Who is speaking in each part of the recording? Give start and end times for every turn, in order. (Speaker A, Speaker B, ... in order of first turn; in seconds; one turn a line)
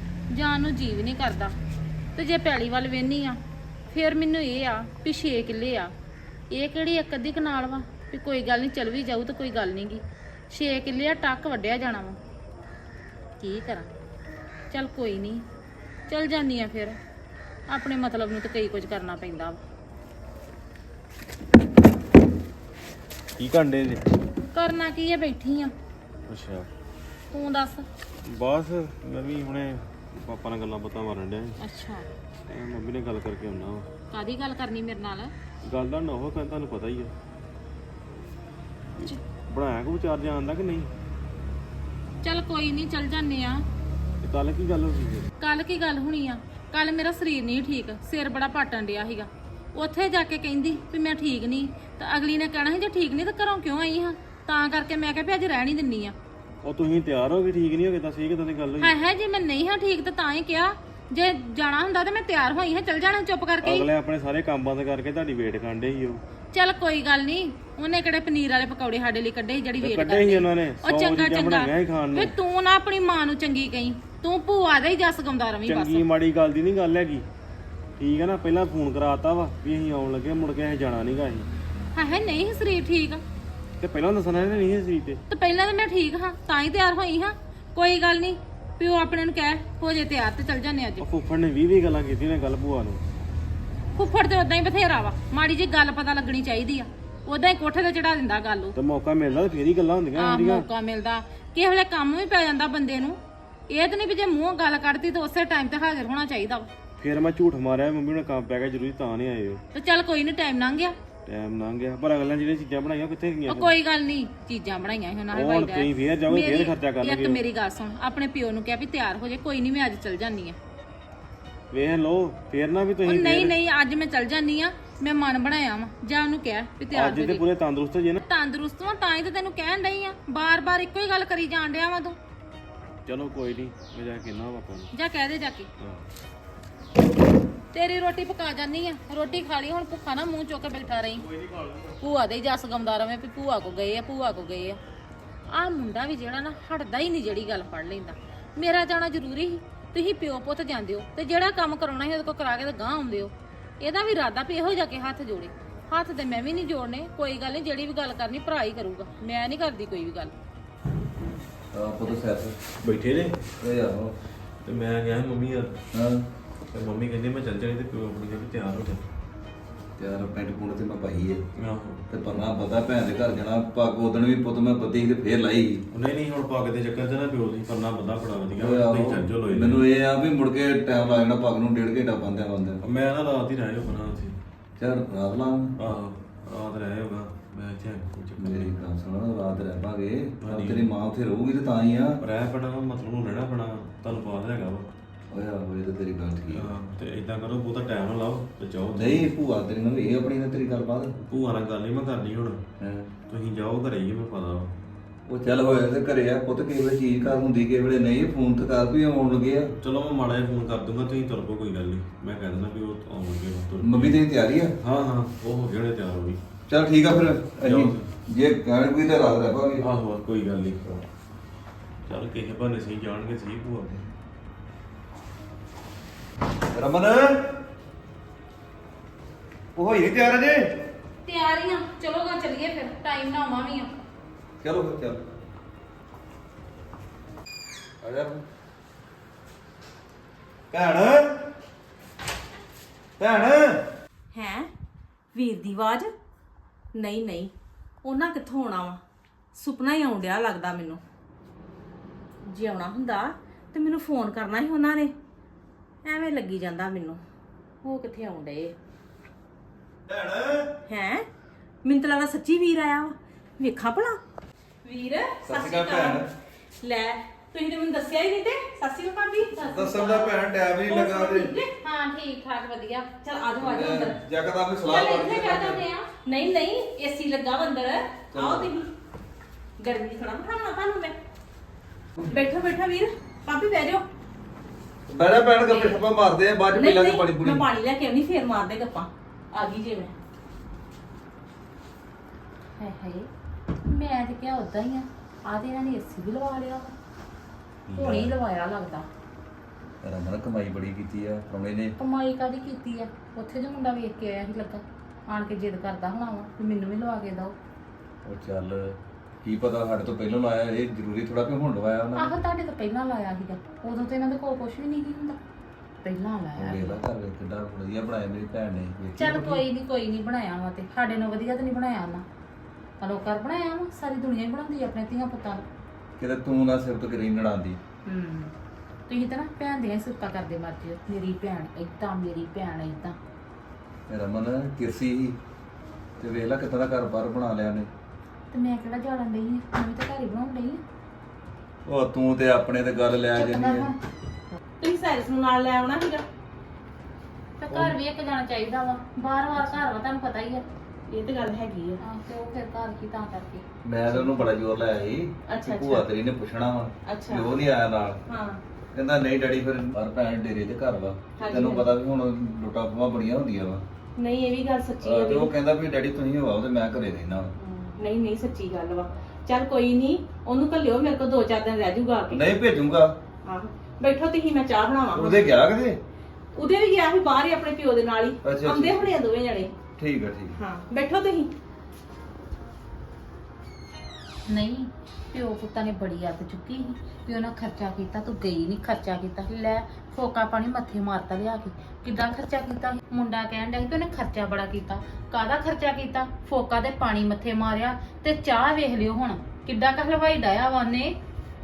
Speaker A: 0.3-1.6
Speaker A: 2.1-3.4
Speaker A: 3.9-5.9
Speaker A: 6.5-12.2
Speaker A: 13.4-13.9
Speaker A: 14.7-15.4
Speaker A: 16.1-17.0
Speaker A: 17.7-19.6
Speaker B: 23.4-24.1
Speaker A: 24.5-25.7
Speaker B: 26.3-26.7
Speaker A: 27.3-27.9
Speaker B: 28.2-31.6
Speaker A: 31.6-32.1
Speaker B: 32.5-33.9
Speaker A: 34.1-35.3
Speaker B: 35.6-37.1
Speaker B: 39.0-40.9
Speaker A: 42.2-43.6
Speaker B: 44.2-45.3
Speaker A: 45.4-56.1
Speaker B: 56.6-58.9
Speaker A: 58.8-63.9
Speaker B: 63.6-66.2
Speaker A: 66.5-76.0
Speaker B: 69.8-72.3
Speaker B: 75.7-77.3
Speaker B: 78.0-81.5
Speaker A: 81.9-83.2
Speaker B: 83.8-85.2
Speaker A: 85.3-91.1
Speaker B: 91.0-93.0
Speaker A: 94.0-98.8
Speaker B: 98.8-100.7
Speaker A: 100.2-103.2
Speaker A: 103.7-106.7
Speaker B: 107.0-109.6
Speaker A: 109.7-110.9
Speaker B: 111.3-113.8
Speaker A: 113.5-120.6
Speaker B: 115.3-117.4
Speaker B: 121.7-123.6
Speaker A: 123.0-127.4
Speaker B: 126.9-128.2
Speaker A: 128.2-132.2
Speaker B: 133.1-134.9
Speaker A: 134.9-135.7
Speaker B: 135.8-136.1
Speaker A: 137.7-141.3
Speaker B: 141.3-141.9
Speaker A: 142.0-144.8
Speaker A: 145.5-160.3
Speaker C: 161.7-162.6
Speaker B: 162.8-163.5
Speaker C: 163.6-164.2
Speaker B: 164.6-165.8
Speaker C: 165.9-166.3
Speaker B: 166.7-169.0
Speaker C: 170.0-171.4
Speaker B: 171.6-172.0
Speaker C: 172.1-175.8
Speaker B: 175.9-179.8
Speaker C: 178.6-182.8
Speaker B: 182.8-184.4
Speaker C: 184.8-185.9
Speaker B: 185.8-188.8
Speaker C: 188.4-192.2
Speaker B: 190.4-190.9
Speaker B: 192.2-194.9
Speaker C: 195.3-196.7
Speaker B: 196.5-199.3
Speaker C: 198.9-201.1
Speaker B: 201.2-202.6
Speaker C: 202.8-203.1
Speaker B: 203.3-204.7
Speaker C: 205.3-209.7
Speaker B: 209.8-214.2
Speaker C: 213.8-214.7
Speaker B: 214.8-216.4
Speaker C: 216.7-219.9
Speaker B: 217.6-218.1
Speaker B: 219.8-221.0
Speaker B: 222.1-224.0
Speaker C: 226.7-227.4
Speaker C: 229.8-230.7
Speaker A: 231.2-234.0
Speaker C: 234.6-235.2
Speaker C: 238.0-238.4
Speaker C: 240.7-241.4
Speaker C: 243.2-243.8
Speaker D: 244.3-244.7
Speaker D: 245.3-246.1
Speaker D: 246.9-247.5
Speaker D: 248.0-249.0
Speaker D: 249.6-251.0
Speaker D: 252.5-255.2
Speaker D: 256.0-257.2
Speaker D: 257.8-258.8
Speaker C: 260.1-260.7
Speaker D: 260.9-261.3
Speaker D: 261.8-264.2
Speaker D: 264.9-266.2
Speaker C: 265.4-266.3
Speaker D: 266.8-271.7
Speaker C: 269.7-271.5
Speaker A: 271.8-273.1
Speaker D: 273.2-274.2
Speaker C: 273.6-275.8
Speaker D: 274.9-275.7
Speaker A: 274.9-276.1
Speaker D: 276.3-278.9
Speaker C: 278.3-278.7
Speaker D: 279.8-281.2
Speaker D: 282.3-284.0
Speaker C: 285.1-287.6
Speaker D: 285.7-286.0
Speaker D: 286.7-290.1
Speaker A: 292.8-293.3
Speaker A: 293.8-296.9
Speaker A: 297.9-299.1
Speaker B: 297.9-298.2
Speaker C: 300.0-301.9
Speaker A: 302.0-307.6
Speaker C: 308.2-312.3
Speaker A: 312.2-315.4
Speaker A: 316.0-317.0
Speaker C: 316.6-319.6
Speaker A: 319.2-322.2
Speaker A: 323.0-325.7
Speaker C: 326.2-327.8
Speaker A: 328.1-328.5
Speaker A: 329.1-333.2
Speaker C: 334.1-335.4
Speaker C: 336.2-337.9
Speaker A: 338.5-340.8
Speaker C: 341.9-343.9
Speaker A: 343.3-344.0
Speaker D: 344.8-346.2
Speaker A: 347.6-350.6
Speaker C: 347.7-348.0
Speaker D: 351.1-352.0
Speaker A: 352.0-353.6
Speaker C: 353.8-358.2
Speaker D: 355.5-356.1
Speaker D: 357.1-357.6
Speaker D: 358.3-358.6
Speaker C: 358.9-363.8
Speaker D: 361.4-361.9
Speaker D: 364.2-365.5
Speaker C: 365.0-367.5
Speaker D: 367.6-372.5
Speaker C: 372.3-373.1
Speaker D: 373.4-375.5
Speaker C: 375.1-376.0
Speaker D: 376.5-379.7
Speaker C: 378.4-379.1
Speaker C: 380.0-380.6
Speaker D: 380.6-381.5
Speaker A: 384.5-401.1